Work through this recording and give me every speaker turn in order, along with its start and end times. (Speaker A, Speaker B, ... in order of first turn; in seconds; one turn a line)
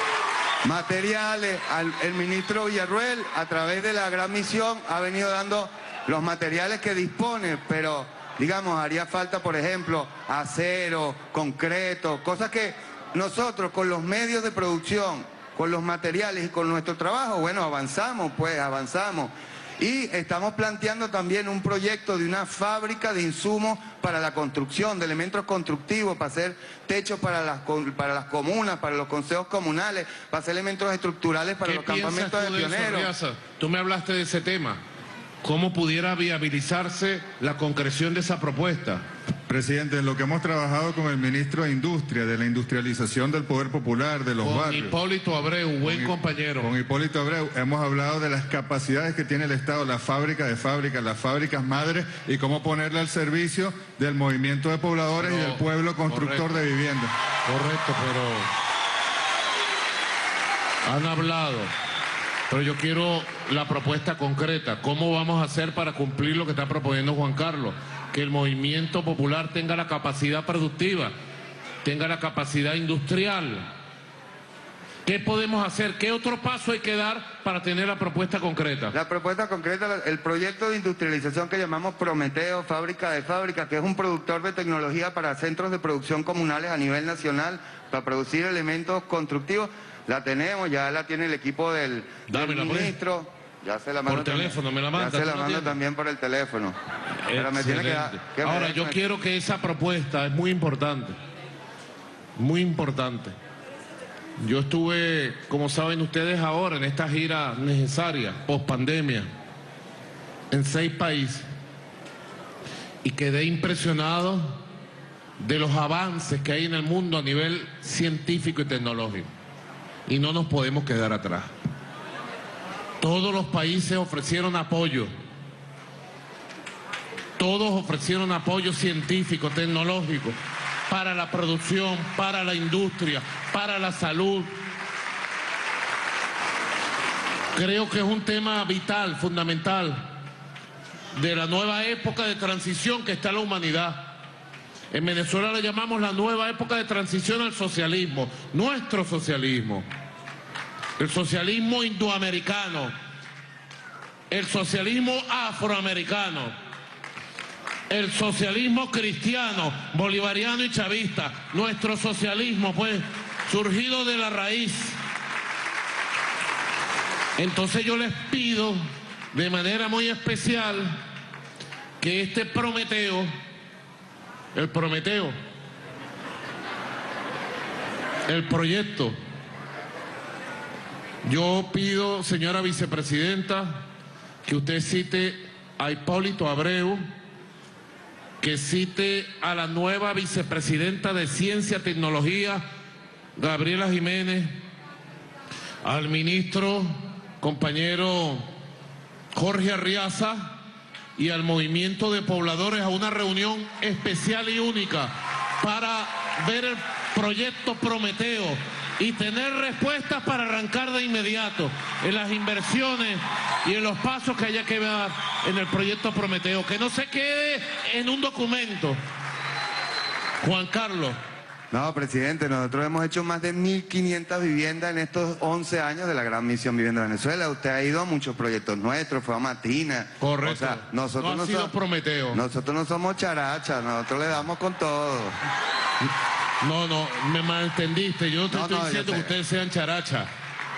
Speaker A: 0.6-33.1
Speaker B: 31.6-34.8
Speaker B: 35.4-39.0
Speaker C: 39.5-45.0
Speaker B: 44.4-46.7
Speaker C: 45.8-57.1
Speaker B: 55.2-56.6
Speaker B: 57.5-58.5
Speaker B: 60.9-61.7
Speaker B: 62.5-71.1
Speaker B: 71.8-73.7
Speaker B: 75.0-79.0
Speaker A: 78.9-96.8
Speaker B: 92.3-93.0
Speaker B: 94.1-95.8
Speaker B: 97.3-101.2
Speaker A: 97.3-99.0
Speaker B: 102.4-103.3
Speaker B: 104.4-109.3
Speaker B: 110.5-111.5
Speaker B: 113.0-114.6
Speaker B: 115.4-119.3
Speaker B: 120.1-121.5
Speaker B: 123.0-125.1
Speaker B: 127.4-130.4
Speaker B: 130.9-134.5
Speaker B: 137.5-140.2
Speaker B: 141.1-144.2
Speaker B: 144.9-149.9
Speaker B: 151.0-152.9
Speaker B: 154.3-156.5
Speaker B: 157.9-165.0
Speaker B: 167.4-168.8
Speaker B: 169.3-171.0
Speaker B: 172.0-173.3
Speaker B: 174.6-175.3
Speaker B: 178.3-179.2
Speaker B: 181.2-183.8
Speaker B: 184.5-187.0
Speaker B: 188.4-192.7
Speaker B: 193.4-194.6
Speaker B: 195.8-198.4
Speaker B: 199.3-200.6
Speaker B: 201.2-219.0
Speaker B: 220.4-221.2
Speaker A: 221.7-231.7
Speaker B: 230.2-232.4
Speaker A: 232.3-235.4
Speaker B: 236.6-240.3
Speaker A: 238.5-239.3